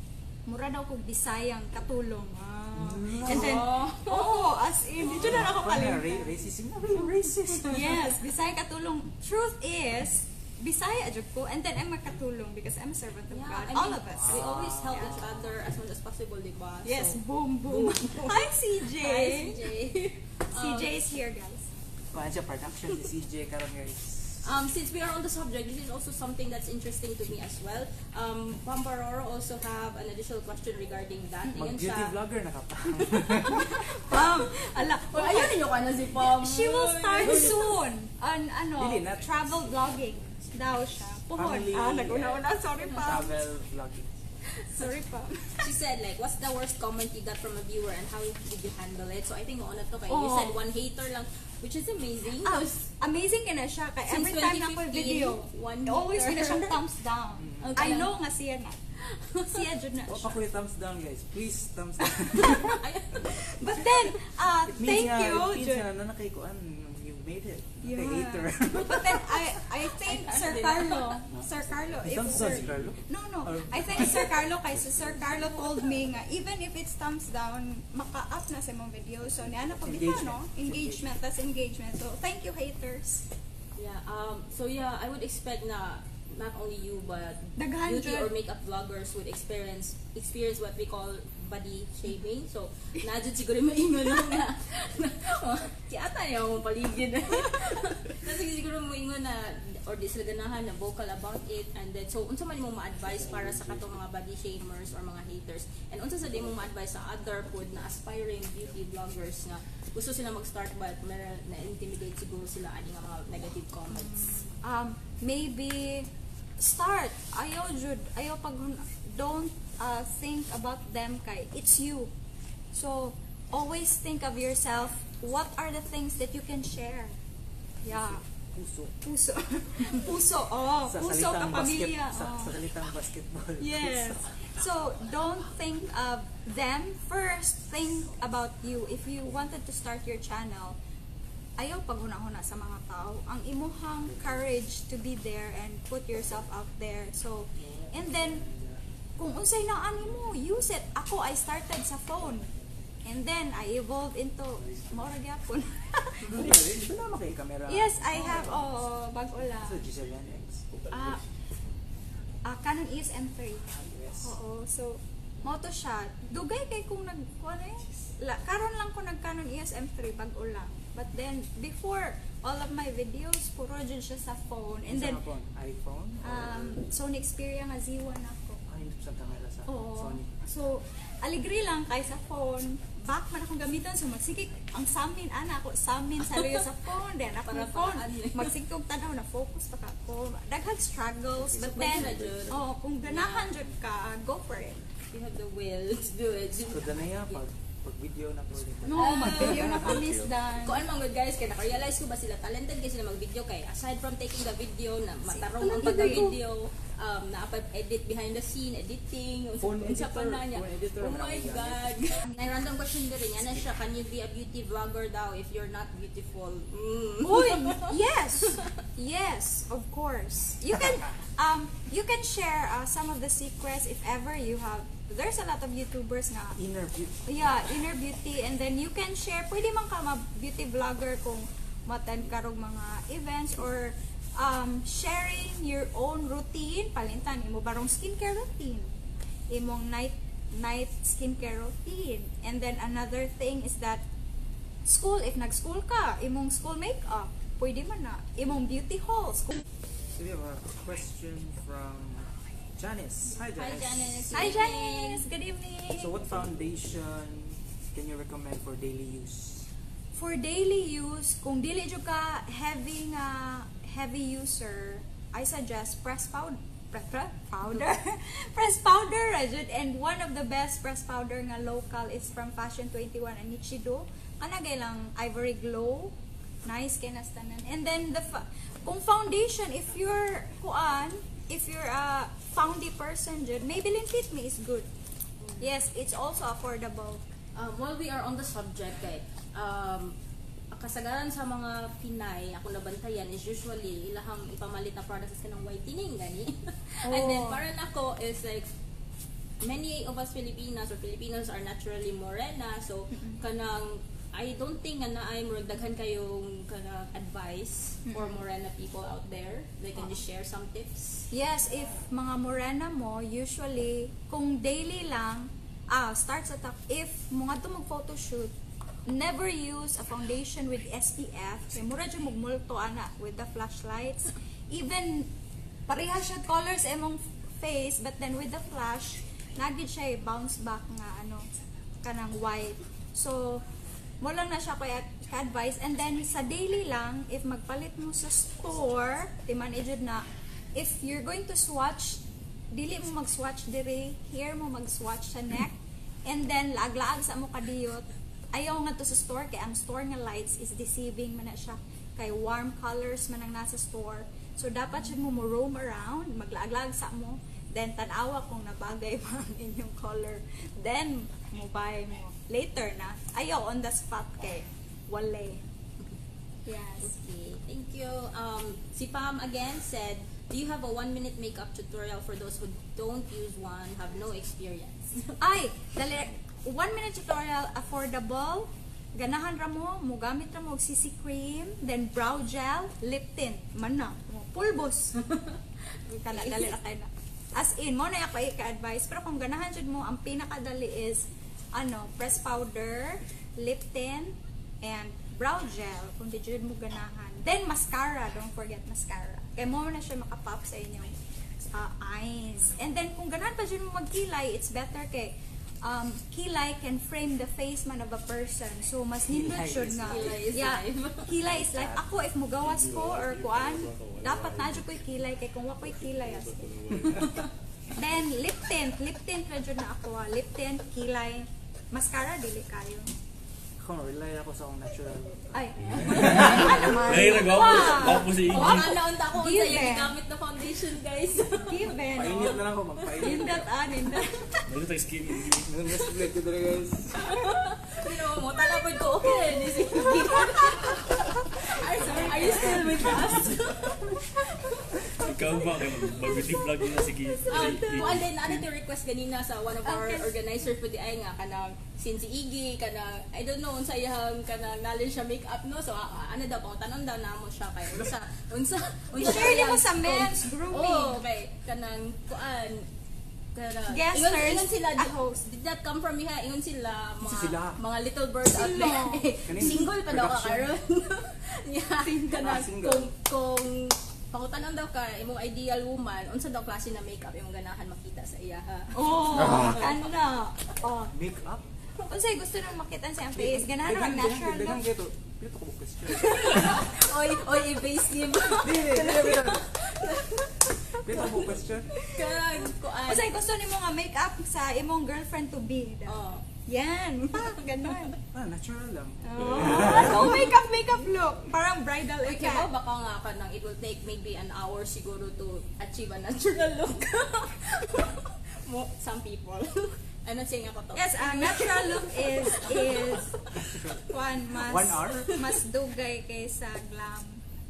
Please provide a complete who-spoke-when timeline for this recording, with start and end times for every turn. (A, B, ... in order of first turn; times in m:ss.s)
0:00.5-0:06.4 A
0:02.7-0:03.7 B
0:03.2-0:04.6 C
0:05.0-0:08.2 B
0:07.6-0:15.2 A
0:13.3-0:20.9 C
0:14.2-0:15.4 B
0:16.8-0:19.7 A
0:20.5-0:21.7 A
0:22.1-0:24.4 B
0:24.4-0:32.2 C
0:31.6-0:33.7 B
0:33.2-0:34.2 C
0:33.6-0:35.6 A
0:35.1-0:37.7 C
0:36.2-0:43.5 A
0:37.2-0:37.7 B
0:38.8-0:40.0 B
0:41.3-0:44.2 B
0:44.6-0:45.7 A
0:45.6-0:52.9 C
0:50.1-0:50.6 A
0:52.4-0:58.8 A
0:54.1-0:56.8 C
0:57.4-0:57.8 B
0:57.6-0:58.1 C
0:59.0-0:59.7 C
0:59.4-1:00.4 A
1:00.1-1:02.8 B
1:02.2-1:05.9 A
1:02.4-1:04.2 C
1:04.7-1:09.4 B
1:07.8-1:23.2 A
1:10.0-1:11.2 C
1:12.0-1:14.5 B
1:12.3-1:13.0 D
1:14.8-1:15.2 D
1:19.7-1:21.1 B
1:23.8-1:54.4 C
1:27.6-1:28.3 A
1:53.9-2:02.1 A
2:02.7-2:07.2 A
2:07.8-2:08.2 A
2:07.9-2:08.9 B
2:09.0-2:12.6 A
2:10.9-2:14.5 B
2:13.6-2:20.8 A
2:21.6-2:28.5 A
2:27.6-2:28.8 B
2:29.2-2:32.5 A
2:33.0-2:36.7 A
2:36.3-2:38.7 B
2:37.7-2:39.8 A
2:39.6-2:40.6 B
2:40.9-2:41.2 A
2:42.4-2:55.2 A
2:43.7-2:44.4 B
2:54.9-2:56.8 B
2:56.2-2:58.6 A
2:58.7-3:00.4 B
2:59.7-3:14.8 A
3:07.5-3:08.6 C
3:11.6-3:13.6 C
3:11.8-3:12.5 D
3:15.1-3:17.4 C
3:16.7-3:20.1 B
3:18.8-3:20.8 A
3:18.9-3:38.7 C
3:19.7-3:20.3 D
3:25.3-3:26.4 A
3:29.6-3:31.9 B
3:37.2-3:46.6 A
3:46.6-3:47.5 B
3:47.3-3:58.9 A
3:59.5-4:04.0 A
4:04.8-4:09.6 A
4:10.1-4:14.6 B
4:13.6-4:15.3 C
4:14.3-4:16.2 A
4:15.9-4:19.7 B
4:20.1-4:44.9 A
4:45.4-4:45.7 C
4:45.6-4:47.2 A
4:47.6-4:50.2 C
4:50.7-4:58.7 C
4:57.1-4:57.6 A
4:59.6-5:11.3 C
5:08.1-5:08.4 A
5:11.3-5:18.5 A
5:19.1-5:25.3 A
5:25.9-5:31.4 A
5:32.0-5:33.6 A
5:34.2-6:05.6 A
6:06.7-6:07.1 A
6:07.0-6:15.4 C
6:15.4-6:25.2 A
6:25.2-6:25.6 C
6:26.1-6:56.6 A
6:26.3-6:26.7 C
6:49.2-6:50.5 B
6:50.1-6:51.4 C
6:51.5-6:52.0 B
6:52.6-6:55.0 D
6:56.1-6:57.4 D
6:57.2-6:57.5 C
6:57.9-7:03.1 A
7:03.8-7:07.0 B
7:05.5-7:10.2 A
7:05.9-7:06.6 C
7:06.4-7:09.0 D
7:08.4-7:11.9 C
7:11.5-7:14.6 A
7:12.1-7:13.7 B
7:14.6-7:16.1 D
7:15.6-7:17.3 B
7:17.2-7:25.0 C
7:18.8-7:23.4 A
7:22.5-7:23.1 B
7:25.2-7:28.6 D
7:25.2-7:28.2 A
7:27.5-7:42.9 C
7:29.8-7:30.3 A
7:39.1-7:41.2 A
7:43.5-8:00.1 C
7:43.9-7:45.4 A
7:47.2-7:47.8 B
7:48.5-7:49.6 A
7:49.5-7:50.7 B
7:52.0-7:52.6 A
7:52.4-7:53.1 B
7:59.0-8:01.1 A
8:01.1-8:01.7 B
8:02.0-8:04.8 A
8:03.4-8:06.9 B
8:06.1-8:11.4 C
8:08.6-8:09.7 B
8:11.0-8:11.9 B
8:12.0-8:13.3 C
8:12.1-8:18.2 A
8:16.1-8:16.5 C
8:18.3-8:20.6 B
8:19.2-8:22.7 A
8:22.3-8:33.3 C
8:31.0-8:33.3 A
8:33.6-8:35.4 B
8:34.1-8:37.4 A